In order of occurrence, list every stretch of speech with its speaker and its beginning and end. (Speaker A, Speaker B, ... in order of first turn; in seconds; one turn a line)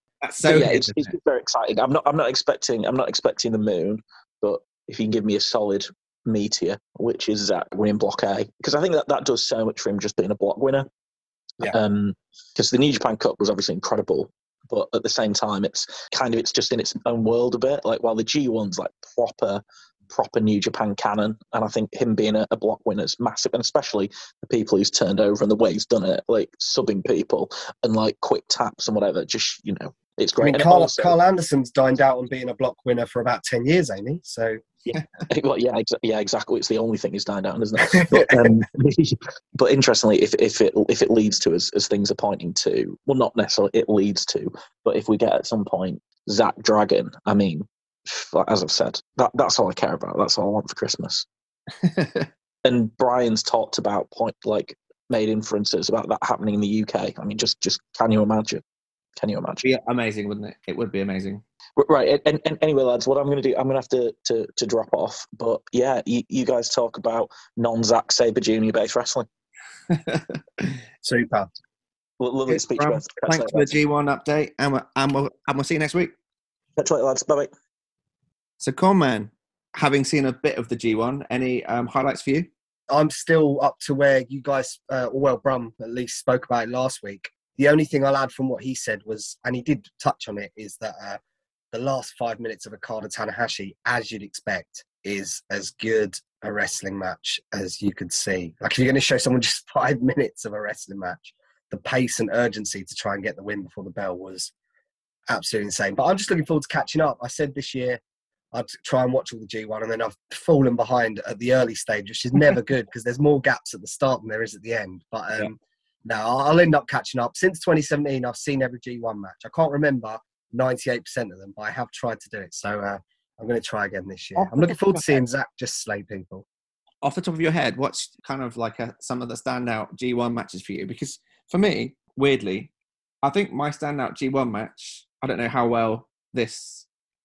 Speaker A: 0.2-1.1
Speaker B: 0.4-10.9
Speaker B: 11.6-31.1
Speaker C: 30.4-34.6
Speaker B: 34.9-51.2
Speaker C: 37.9-38.5
Speaker A: 51.8-52.3
Speaker B: 52.6-58.6
Speaker B: 59.2-59.6
Speaker A: 59.6-61.4
Speaker B: 61.8-69.3
Speaker A: 69.9-70.8
Speaker C: 71.0-71.5
Speaker B: 72.2-73.8
Speaker A: 72.5-76.1
Speaker B: 76.8-77.5
Speaker A: 78.6-82.5
Speaker C: 82.9-91.2
Speaker C: 91.7-104.5
Speaker C: 105.3-108.0
Speaker C: 108.5-115.5
Speaker C: 116.0-126.5
Speaker A: 124.3-125.2
Speaker A: 127.0-132.7
Speaker A: 133.2-136.8